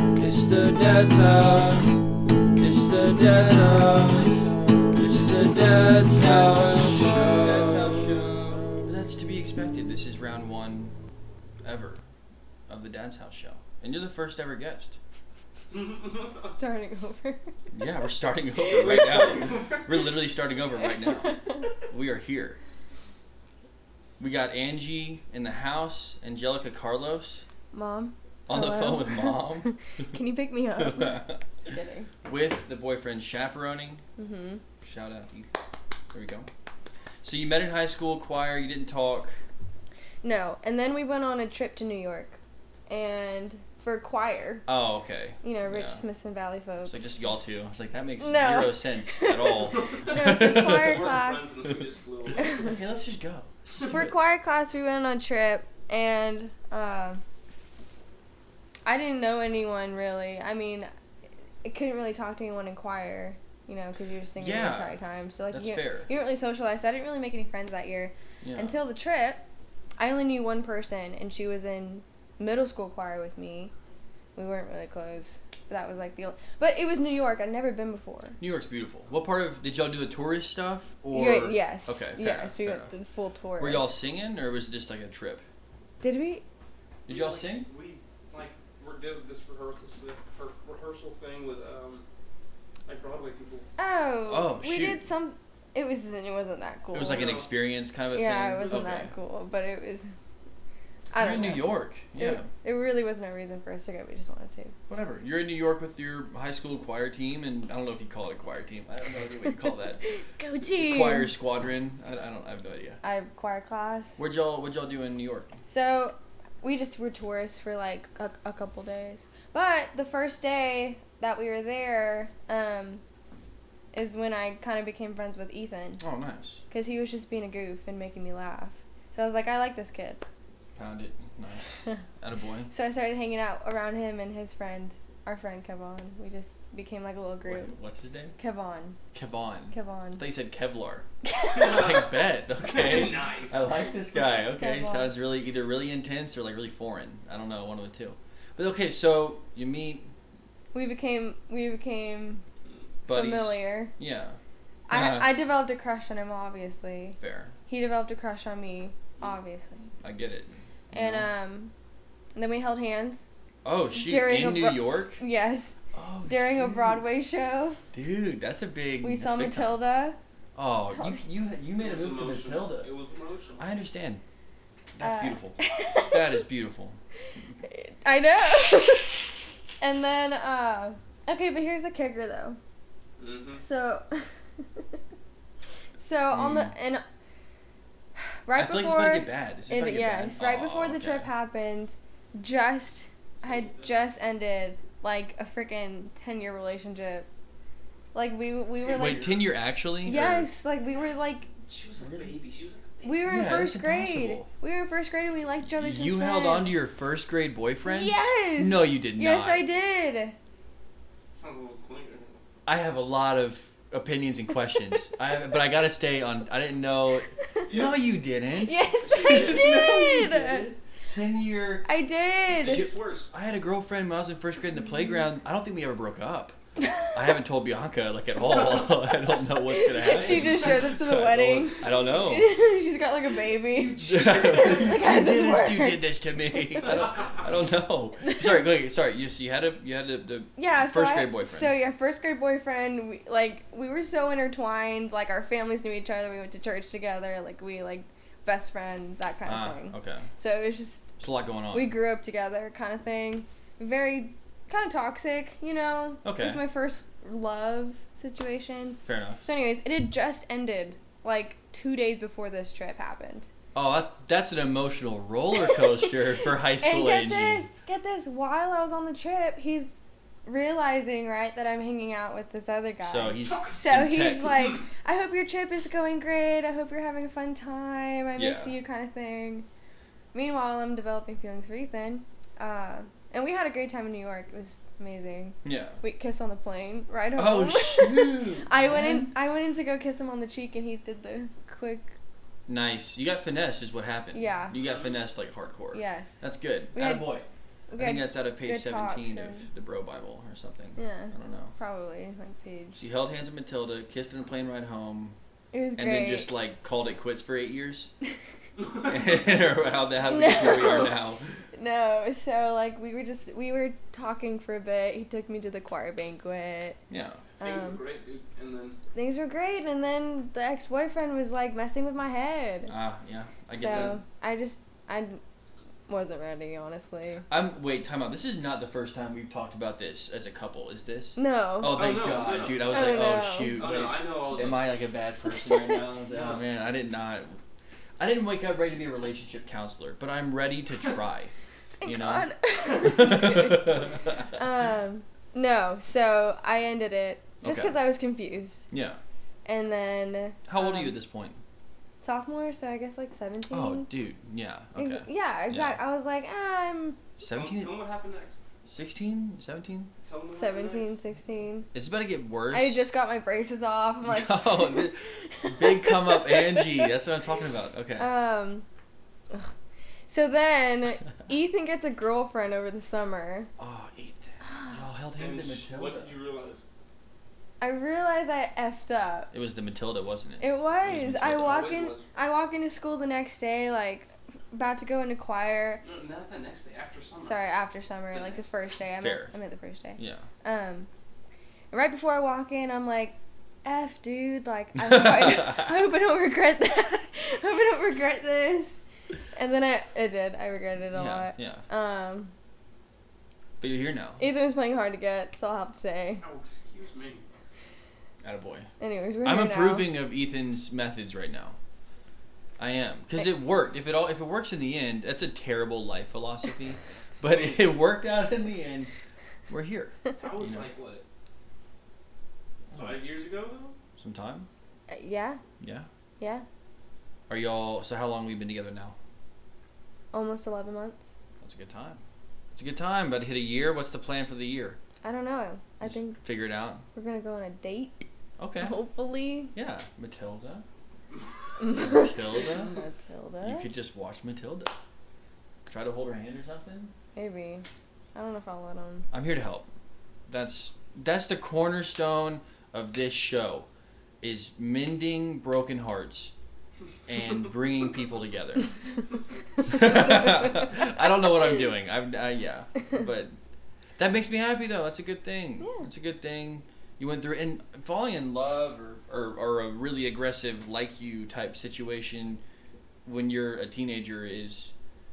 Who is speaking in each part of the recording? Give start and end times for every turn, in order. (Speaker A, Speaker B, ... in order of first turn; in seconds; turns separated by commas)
Speaker A: 0.1-2.0, Speaker A: 2.6-10.9, Speaker B: 7.2-8.8, Speaker A: 11.6-12.0, Speaker A: 12.7-15.0, Speaker B: 15.7-16.4, Speaker C: 16.3-17.5, Speaker A: 17.7-22.6, Speaker B: 18.6-20.1, Speaker C: 21.2-21.6, Speaker A: 24.2-27.4, Speaker C: 27.7-32.1, Speaker A: 28.5-30.1, Speaker A: 30.8-31.4, Speaker A: 32.2-34.0, Speaker C: 34.2-34.6, Speaker A: 34.8-35.5, Speaker A: 36.1-36.5, Speaker A: 37.2-39.4, Speaker C: 40.2-44.7, Speaker A: 44.7-46.0, Speaker C: 45.4-47.1, Speaker A: 46.8-51.1, Speaker C: 48.2-51.5, Speaker B: 49.8-52.8, Speaker A: 52.3-54.1, Speaker C: 52.4-52.7, Speaker C: 53.8-57.2, Speaker C: 58.8-60.9, Speaker C: 61.6-69.4, Speaker A: 64.4-65.0, Speaker A: 65.5-66.1, Speaker A: 68.4-68.8, Speaker C: 70.0-73.7, Speaker C: 74.3-78.4, Speaker A: 78.4-82.9, Speaker C: 81.1-83.9, Speaker A: 83.6-85.4, Speaker C: 86.0-86.4, Speaker A: 87.1-87.7, Speaker B: 87.1-92.0, Speaker B: 92.8-93.7, Speaker C: 93.8-97.3, Speaker A: 94.3-95.0, Speaker A: 96.9-99.1, Speaker B: 97.1-97.5, Speaker C: 98.1-100.1, Speaker B: 98.6-98.9, Speaker C: 101.1-104.7, Speaker A: 101.2-102.5, Speaker A: 104.9-110.0, Speaker C: 110.0-111.3, Speaker A: 110.7-113.0, Speaker C: 113.0-114.2, Speaker A: 114.2-115.5, Speaker C: 115.6-123.0, Speaker C: 123.9-126.0, Speaker A: 126.0-126.6, Speaker C: 126.7-130.2, Speaker A: 130.8-132.7, Speaker C: 131.5-132.0, Speaker C: 132.7-137.7, Speaker A: 137.4-138.3, Speaker C: 138.4-139.0, Speaker A: 139.1-141.0, Speaker C: 139.7-140.2, Speaker C: 141.2-142.0, Speaker A: 141.6-150.1, Speaker B: 141.6-142.0, Speaker B: 142.6-143.8, Speaker C: 144.5-145.1, Speaker C: 150.7-152.4, Speaker A: 153.1-154.4, Speaker C: 153.1-153.9, Speaker C: 154.9-159.9, Speaker A: 154.9-155.3, Speaker A: 157.2-157.5, Speaker A: 160.0-161.3, Speaker C: 160.9-161.7, Speaker C: 162.3-163.2, Speaker A: 163.6-165.2, Speaker C: 163.9-165.8, Speaker A: 165.9-166.8, Speaker C: 166.3-167.8, Speaker A: 167.9-169.8, Speaker C: 169.0-170.2, Speaker A: 170.5-172.9, Speaker B: 171.8-173.7, Speaker A: 173.6-174.2, Speaker A: 174.9-177.0, Speaker C: 175.0-176.2, Speaker C: 177.6-179.2, Speaker C: 179.8-182.6, Speaker B: 183.2-183.6, Speaker C: 183.6-185.0, Speaker C: 186.0-187.0, Speaker A: 186.3-186.7, Speaker C: 188.4-197.3, Speaker A: 188.5-191.3, Speaker B: 193.4-194.0, Speaker C: 198.1-199.3, Speaker B: 198.8-199.4, Speaker A: 198.9-200.5, Speaker C: 200.0-201.5, Speaker B: 201.6-203.3, Speaker C: 203.0-206.7, Speaker A: 203.2-204.5, Speaker A: 205.7-209.6, Speaker C: 207.8-210.3, Speaker B: 211.3-212.4, Speaker A: 212.7-221.8, Speaker C: 217.4-217.7, Speaker B: 217.7-218.0, Speaker C: 218.6-220.7, Speaker B: 219.0-219.8, Speaker C: 221.8-222.9, Speaker B: 222.6-223.3, Speaker A: 222.6-232.5, Speaker C: 226.8-227.1, Speaker B: 228.4-228.9, Speaker C: 229.6-237.1, Speaker B: 230.1-230.8, Speaker B: 233.7-234.9, Speaker A: 233.9-241.7, Speaker C: 238.2-238.6, Speaker C: 240.6-251.1, Speaker A: 249.4-250.3, Speaker A: 251.2-251.9, Speaker C: 251.7-263.4, Speaker A: 256.2-256.6, Speaker A: 259.0-259.4, Speaker A: 263.7-267.7, Speaker C: 266.8-269.9, Speaker C: 270.4-279.6, Speaker A: 273.0-274.7, Speaker B: 273.4-274.8, Speaker A: 278.4-278.7, Speaker C: 280.3-292.1, Speaker A: 285.6-286.0, Speaker A: 287.4-289.3, Speaker A: 292.7-297.4, Speaker C: 294.3-294.7, Speaker B: 294.7-295.2, Speaker C: 295.9-296.4, Speaker C: 296.9-297.4, Speaker C: 297.9-299.7, Speaker A: 298.0-301.7, Speaker C: 301.0-303.0, Speaker A: 303.0-305.4, Speaker C: 305.7-306.5, Speaker A: 305.9-308.1, Speaker A: 309.0-311.6, Speaker C: 310.3-311.1, Speaker C: 311.7-317.0, Speaker A: 317.1-317.4, Speaker C: 317.6-318.0, Speaker B: 317.6-319.0, Speaker C: 319.1-322.9, Speaker A: 322.9-324.2, Speaker C: 323.7-325.4, Speaker C: 326.1-327.5, Speaker A: 327.5-337.6, Speaker C: 331.4-332.1, Speaker B: 331.9-334.9, Speaker C: 332.8-333.8, Speaker C: 335.5-336.0, Speaker B: 336.3-336.6, Speaker A: 338.2-341.5, Speaker C: 342.0-348.9, Speaker A: 342.0-344.5, Speaker A: 347.6-347.9, Speaker A: 348.9-349.2, Speaker C: 349.6-351.1, Speaker A: 350.6-351.6, Speaker C: 352.2-354.1, Speaker A: 353.7-356.0, Speaker C: 354.9-357.2, Speaker A: 357.4-357.9, Speaker B: 357.4-358.6, Speaker A: 358.9-360.1, Speaker B: 360.2-361.2, Speaker C: 360.5-361.9, Speaker A: 361.9-363.0, Speaker C: 362.7-367.1, Speaker A: 364.2-368.3, Speaker C: 368.2-368.8, Speaker C: 370.3-373.7, Speaker A: 373.8-376.3, Speaker C: 374.6-375.0, Speaker B: 375.4-376.8, Speaker C: 377.8-379.5, Speaker A: 379.5-381.9, Speaker C: 380.6-386.0, Speaker B: 381.5-382.3, Speaker B: 386.0-387.6, Speaker C: 387.4-391.1, Speaker B: 388.3-388.7, Speaker A: 389.2-389.5, Speaker A: 390.2-390.4, Speaker C: 391.9-399.0, Speaker A: 395.0-395.9, Speaker C: 399.5-402.5, Speaker A: 401.1-401.8, Speaker A: 403.8-404.4, Speaker C: 404.4-406.4, Speaker B: 406.4-407.4, Speaker A: 408.4-408.9, Speaker C: 409.0-410.1, Speaker A: 409.4-411.8, Speaker A: 412.8-419.1, Speaker A: 419.7-420.9, Speaker B: 420.4-421.2, Speaker A: 422.9-423.2, Speaker B: 422.9-423.9, Speaker A: 424.2-424.7, Speaker C: 425.1-425.6, Speaker A: 425.8-426.1, Speaker C: 426.4-426.6, Speaker A: 427.5-429.1, Speaker C: 430.3-431.2, Speaker A: 431.6-432.2, Speaker A: 432.7-435.0, Speaker C: 435.2-436.4, Speaker A: 436.0-437.0, Speaker C: 437.1-438.2, Speaker A: 438.6-438.9, Speaker C: 438.8-439.7, Speaker A: 439.7-440.8, Speaker C: 441.8-443.9, Speaker A: 441.8-442.9, Speaker A: 443.6-444.9, Speaker A: 445.9-447.1, Speaker C: 447.3-449.3, Speaker A: 449.3-449.9, Speaker A: 450.5-453.9, Speaker A: 454.4-456.5, Speaker A: 457.3-458.9, Speaker A: 459.8-463.6, Speaker A: 464.2-472.6, Speaker A: 473.2-474.9